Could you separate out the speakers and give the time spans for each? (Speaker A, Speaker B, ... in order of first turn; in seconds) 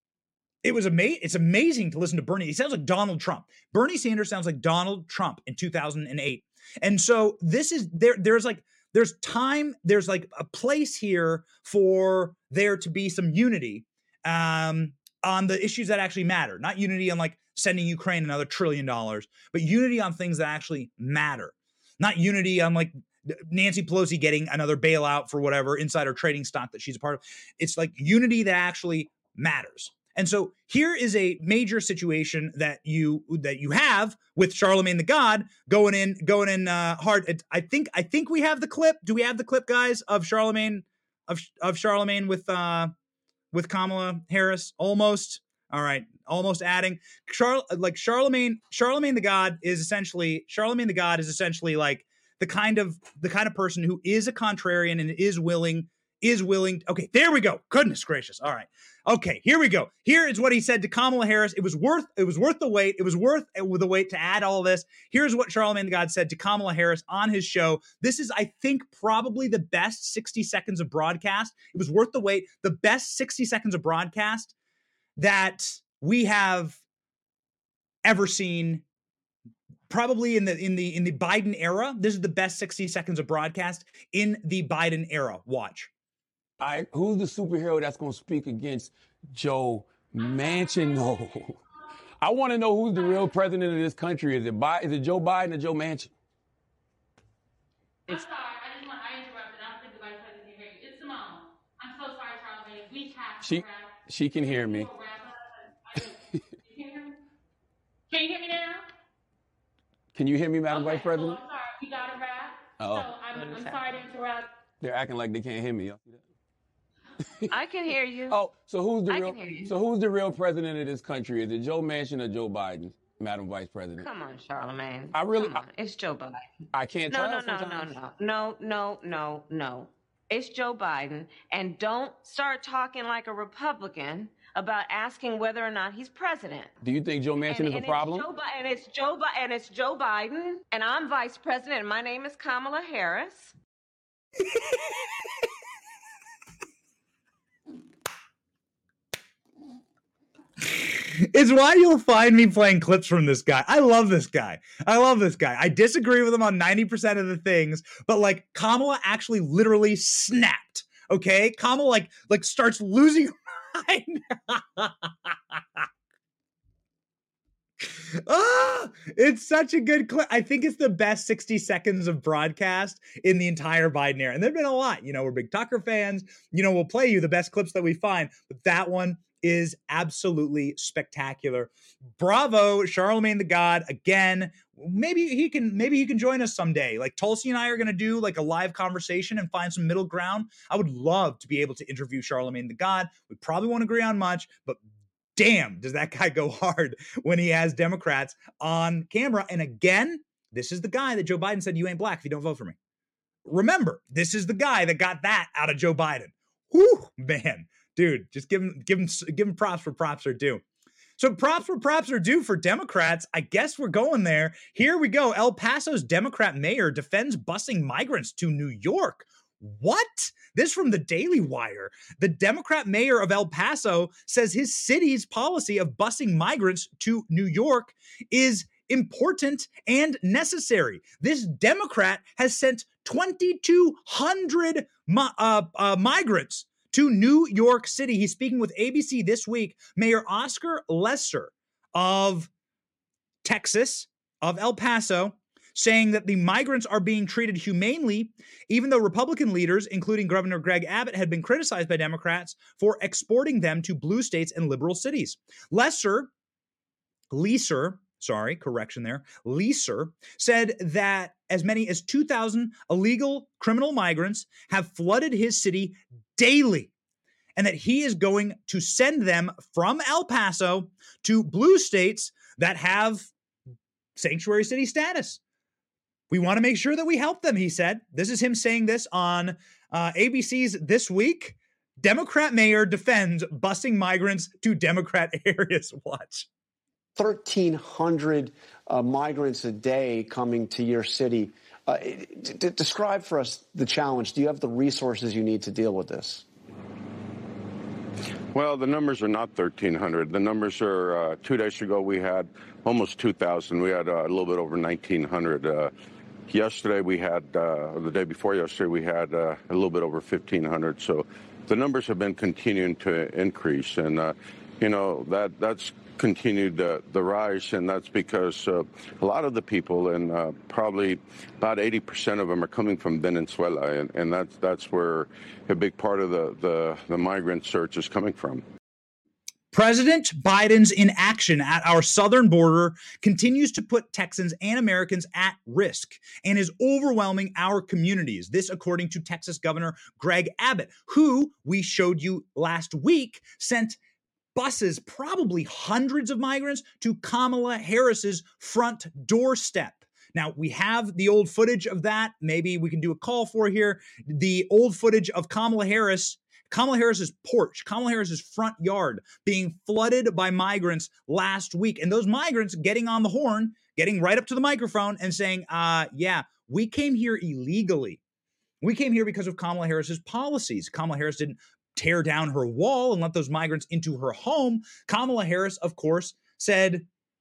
Speaker A: 0.6-42.9, 43.5-74.5, 75.2-76.8, 78.0-78.8, 79.9-85.9, 144.5-144.8, 150.6-165.8, 167.8-194.8, 195.3-202.8, 203.4-210.6, 211.2-242.5, 243.4-256.3, 257.3-266.9, 267.6-273.3, 274.1-275.4, 276.3-286.5, 329.7-344.0, 344.5-368.2, 368.8-377.1
Speaker B: 86.6-91.6, 92.2-96.1, 103.4-104.9, 110.1-111.4, 112.8-113.8, 114.8-116.2, 118.3-124.0, 125.1-125.6, 126.7-127.9, 136.8-138.3
Speaker C: 90.3-91.1, 93.0-93.3, 98.1-107.1, 108.1-108.8, 110.7-114.5
Speaker D: 117.5-118.4, 119.0-119.8, 124.0-126.4, 127.1-136.7, 137.4-143.5
Speaker E: 287.1-296.4
Speaker F: 298.5-305.9, 306.5-328.6